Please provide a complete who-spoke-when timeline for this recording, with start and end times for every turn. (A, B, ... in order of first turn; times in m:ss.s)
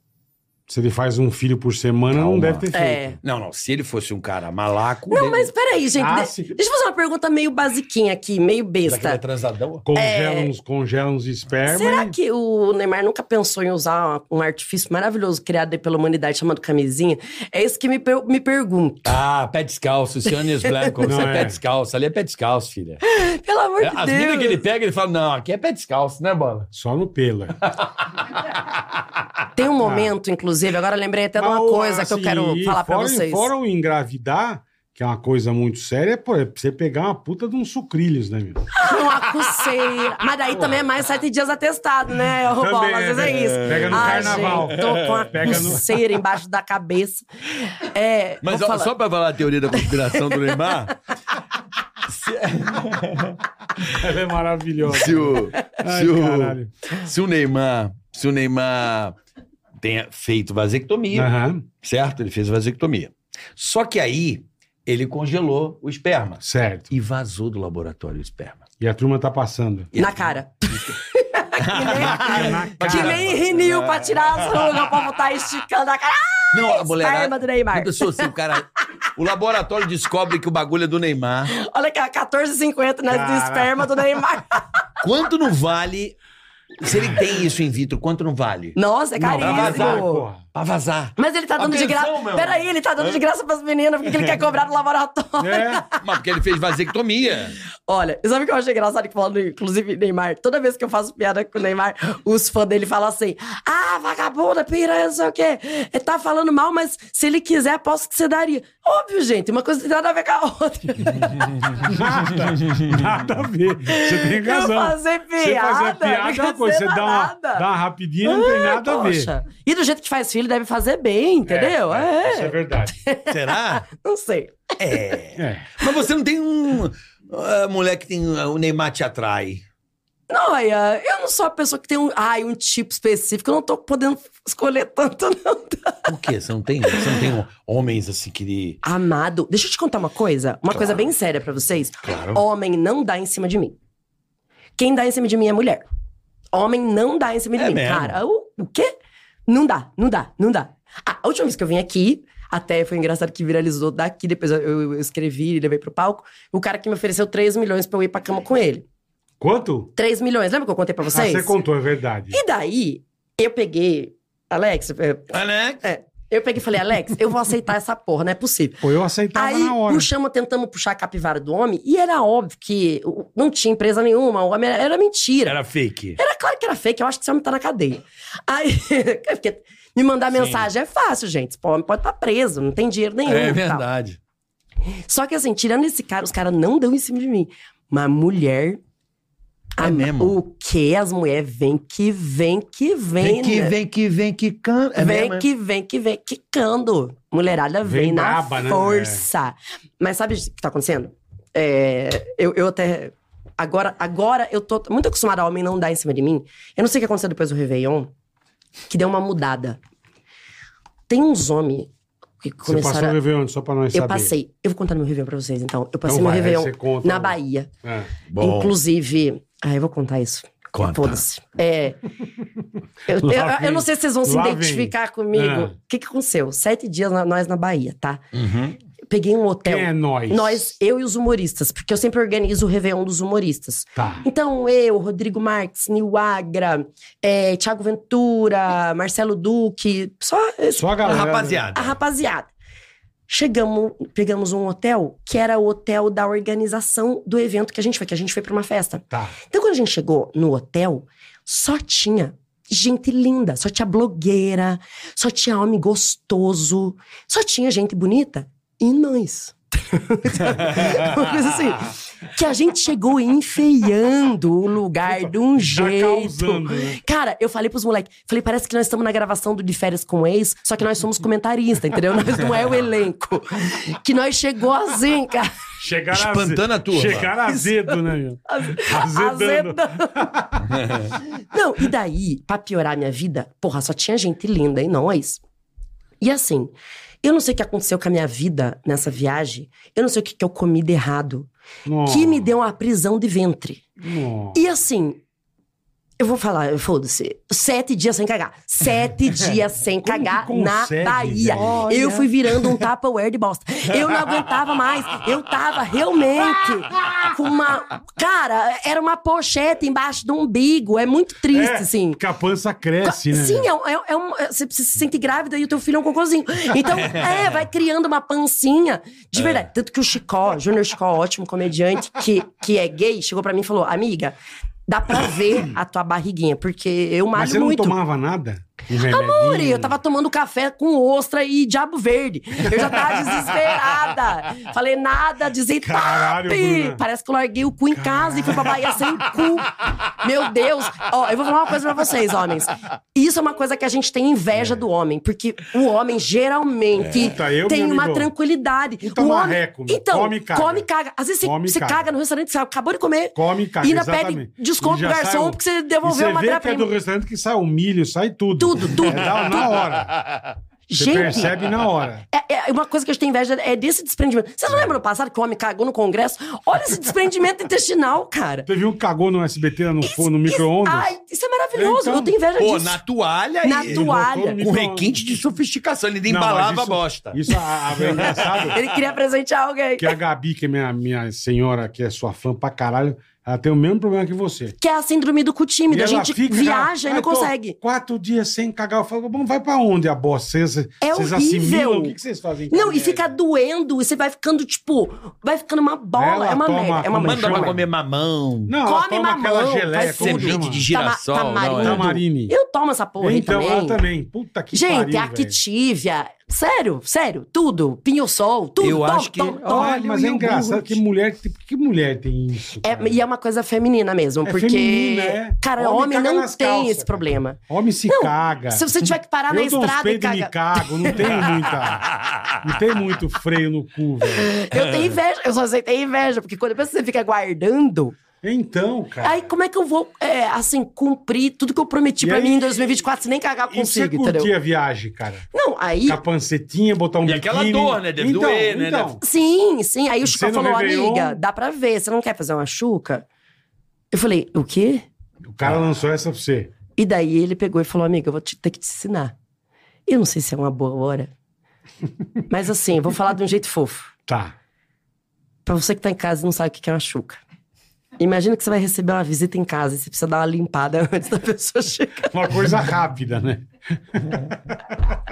0:00.7-0:03.2 A
0:02.1-0:02.7 B
0:02.7-0:03.2 C
0:03.2-0:05.5 B
0:05.1-0:09.2 C
0:05.9-0:06.6 A
0:08.8-0:09.8 B
0:09.8-0:12.1 A
0:09.9-0:10.5 C
0:11.6-0:19.1 C
0:19.0-0:23.0 B
0:20.3-0:21.2 C
0:21.0-0:21.6 A
0:23.1-0:24.6 C
0:23.8-0:26.7 B
0:26.7-0:27.6 A
0:29.5-0:33.5 C
0:29.8-0:30.1 A
0:31.4-0:38.7 A
0:38.7-0:48.9 C
0:42.5-0:45.8 A
0:43.2-0:45.8 B
0:48.4-0:50.9 B
0:49.7-0:50.8 C
0:52.1-0:53.9 B
0:53.9-0:56.7 A
0:54.9-0:59.2 B
0:59.8-1:06.4 B
1:01.1-1:01.6 A
1:06.4-1:06.9 A
1:06.9-1:08.6 B
1:08.8-1:09.9 A
1:09.9-1:10.4 B
1:10.0-1:18.3 C
1:11.6-1:15.1 B
1:11.9-1:13.3 A
1:16.5-1:21.5 B
1:21.5-1:24.9 C
1:23.1-1:23.9 A
1:25.0-1:26.2 B
1:26.8-1:28.8 B
1:28.8-1:30.2 C
1:29.2-1:30.4 A
1:29.4-1:33.2 B
1:31.2-1:36.0 C
1:35.4-1:35.8 A
1:36.0-1:37.6 B
1:37.9-1:51.5 C
1:51.8-1:59.3 A
1:53.8-1:57.6 C
1:58.2-2:05.1 C
2:01.4-2:03.0 A
2:03.3-2:03.8 B
2:04.8-2:09.6 B
2:05.4-2:05.7 A
2:10.3-2:16.1 C
2:16.0-2:18.8 B
2:16.9-2:17.2 C
2:18.8-2:23.8 C
2:22.0-2:22.4 B
2:24.8-2:25.8 C
2:26.5-2:28.9 C
2:27.6-2:28.2 B
2:29.5-2:38.8 C
2:39.4-2:39.9 A
2:40.0-2:41.5 C
2:41.1-2:42.4 A
2:42.3-2:55.6 C
2:45.3-2:45.8 B
2:48.8-2:50.1 A
2:55.4-2:56.2 B
2:56.2-3:03.8 C
3:00.3-3:00.7 B
3:03.2-3:04.2 B
3:05.1-3:08.8 C
3:09.8-3:13.7 C
3:09.8-3:10.3 B
3:13.2-3:15.5 B
3:14.9-3:28.1 C
3:17.8-3:19.2 A
3:28.9-3:29.8 C
3:31.1-3:31.9 C
3:32.4-3:33.2 C
3:32.6-3:34.3 A
3:33.9-3:37.7 C
3:36.0-3:38.1 A
3:38.3-3:38.8 B
3:38.4-3:42.0 C
3:40.7-3:41.2 B
3:43.1-3:48.2 C
3:43.1-3:45.7 A
3:48.3-3:48.8 B
3:49.1-4:02.5 C
3:49.6-3:50.7 A
3:54.0-3:54.2 A
4:00.7-4:01.6 A
4:01.0-4:02.0 B
4:03.3-4:35.5 C
4:25.0-4:27.0 A
4:35.8-4:40.8 A
4:36.1-4:37.3 B
4:37.5-4:38.0 C
4:38.5-4:40.3 C
4:40.7-4:41.1 B
4:41.4-4:45.4 C
4:46.2-4:46.7 C
4:47.2-4:51.5 C
4:51.8-4:52.5 A
4:52.0-4:53.8 C
4:54.0-4:54.6 A
4:54.5-4:55.2 C
4:56.2-5:12.2 C
5:00.0-5:01.9 A
5:01.5-5:02.6 B
5:11.5-5:13.7 A
5:13.0-5:24.4 C
5:17.0-5:17.5 B
5:19.4-5:19.6 B
5:24.9-5:28.0 C
5:27.3-5:30.0 A
5:29.0-5:56.9 C
5:35.8-5:37.0 A
5:37.9-5:39.0 A
5:47.0-5:48.3 A
5:49.0-5:50.8 A
5:51.4-5:52.1 A
5:53.3-6:00.1 A
5:58.6-5:59.6 C
6:00.1-6:00.4 B
6:00.9-6:01.6 C
6:01.0-6:02.2 A
6:02.3-6:08.7 C
6:08.7-6:11.1 A
6:10.0-6:13.0 C
6:11.7-6:12.3 A
6:12.6-6:14.1 B
6:13.6-6:14.6 C
6:13.8-6:15.2 A
6:14.6-6:17.4 B
6:16.3-6:18.8 A
6:18.0-6:18.8 B
6:18.7-6:20.1 C
6:20.0-6:24.8 A
6:24.8-6:27.8 C
6:25.9-6:33.4 A
6:31.0-6:32.2 C
6:32.7-6:37.8 C
6:36.2-6:37.8 A
6:37.2-6:38.8 B
6:38.7-6:40.8 A
6:38.8-6:44.0 C
6:40.1-6:42.2 B
6:41.8-6:42.5 A
6:43.2-6:45.6 A
6:44.7-6:50.3 C
6:48.8-6:50.9 B
6:49.6-6:53.2 A
6:52.8-7:01.6 C
6:54.4-6:58.9 A
6:59.5-7:04.5 A
7:01.5-7:02.5 B
7:04.4-7:08.2 C
7:04.7-7:05.2 B
7:08.4-7:09.4 A
7:09.2-7:14.5 C
7:12.2-7:13.0 A
7:13.7-7:15.5 A
7:15.5-7:16.2 C
7:16.0-7:19.2 A
7:17.2-7:19.2 B
7:19.2-7:23.2 C
7:20.2-7:21.4 A
7:24.1-7:25.0 C
7:25.4-7:26.7 A
7:26.9-7:29.3 C
7:30.1-7:31.3 C
7:32.5-7:34.1 C
7:34.3-7:34.5 A
7:35.6-7:37.4 C
7:38.2-7:42.3 C
7:42.3-7:45.1 A